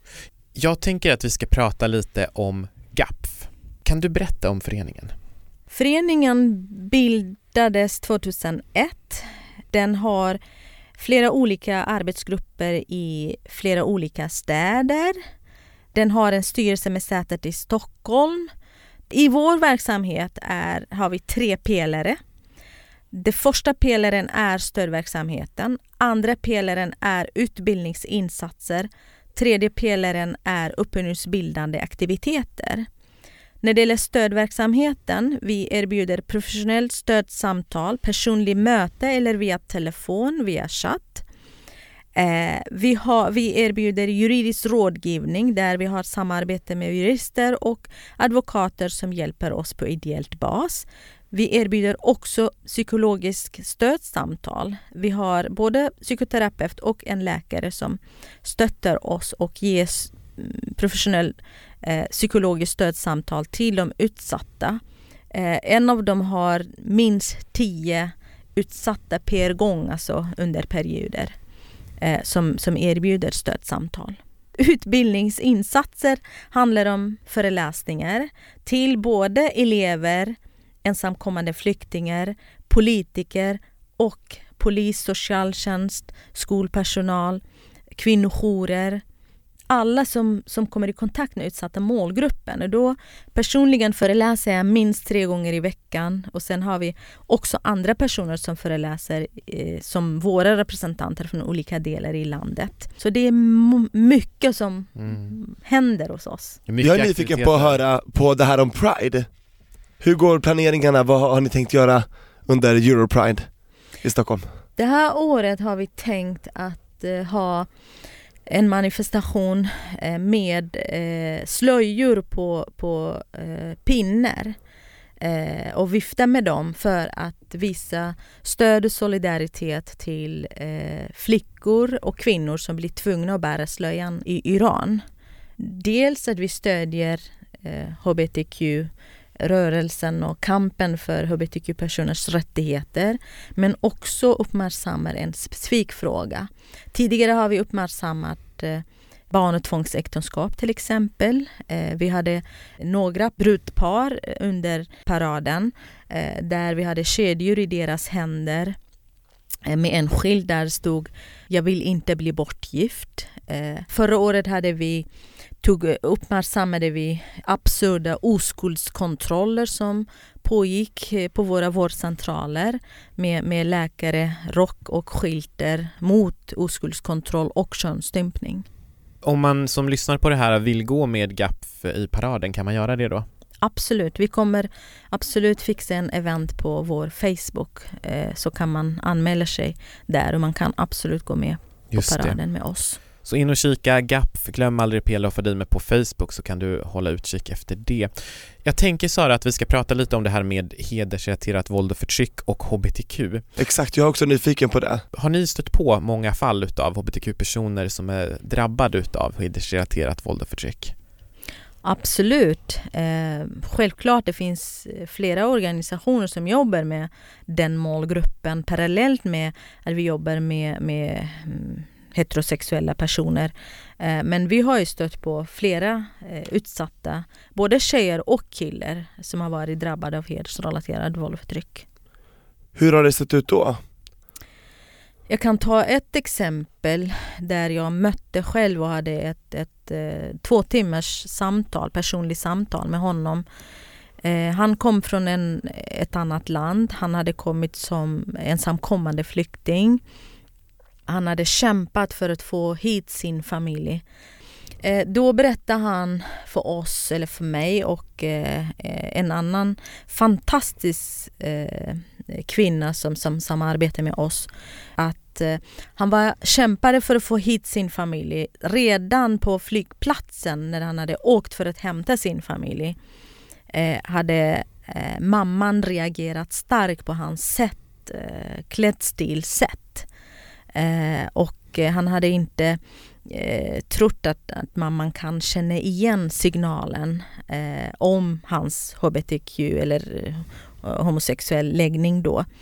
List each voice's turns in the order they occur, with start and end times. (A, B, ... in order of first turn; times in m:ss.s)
0:00.6-0:05.1 A
0:05.7-0:10.4 B
0:11.0-0:15.2 B
0:15.9-0:18.5 B
0:19.1-0:22.2 B
0:23.1-0:32.9 B
0:33.6-0:41.2 B
0:42.2-1:04.8 B
1:05.3-1:11.3 B
1:12.0-1:27.4 B
1:28.0-1:29.0 B
1:29.7-1:46.6 B
1:45.0-1:45.3 A
1:46.7-1:47.8 A
1:46.8-1:49.3 C
1:50.0-1:53.5 C
1:54.0-1:54.5 C
1:54.8-1:57.7 B
1:58.5-2:04.6 B
2:05.2-2:15.0 B
2:15.6-2:38.8 B
2:39.7-2:45.1 B
2:45.6-2:58.7 B
2:59.2-3:03.3 A
3:03.6-3:13.0 B
3:11.9-3:12.4 A
3:13.2-3:18.1 A
3:18.6-3:23.4 A
3:23.6-3:25.0 C
3:25.1-3:30.9 A
3:31.8-3:51.8 B
3:52.8-3:53.8 C
3:55.3-4:03.4 B
4:04.2-4:10.0 B
4:11.1-4:14.0 B
4:14.8-4:33.0 B
4:33.7-4:40.1 B
4:40.8-4:52.5 B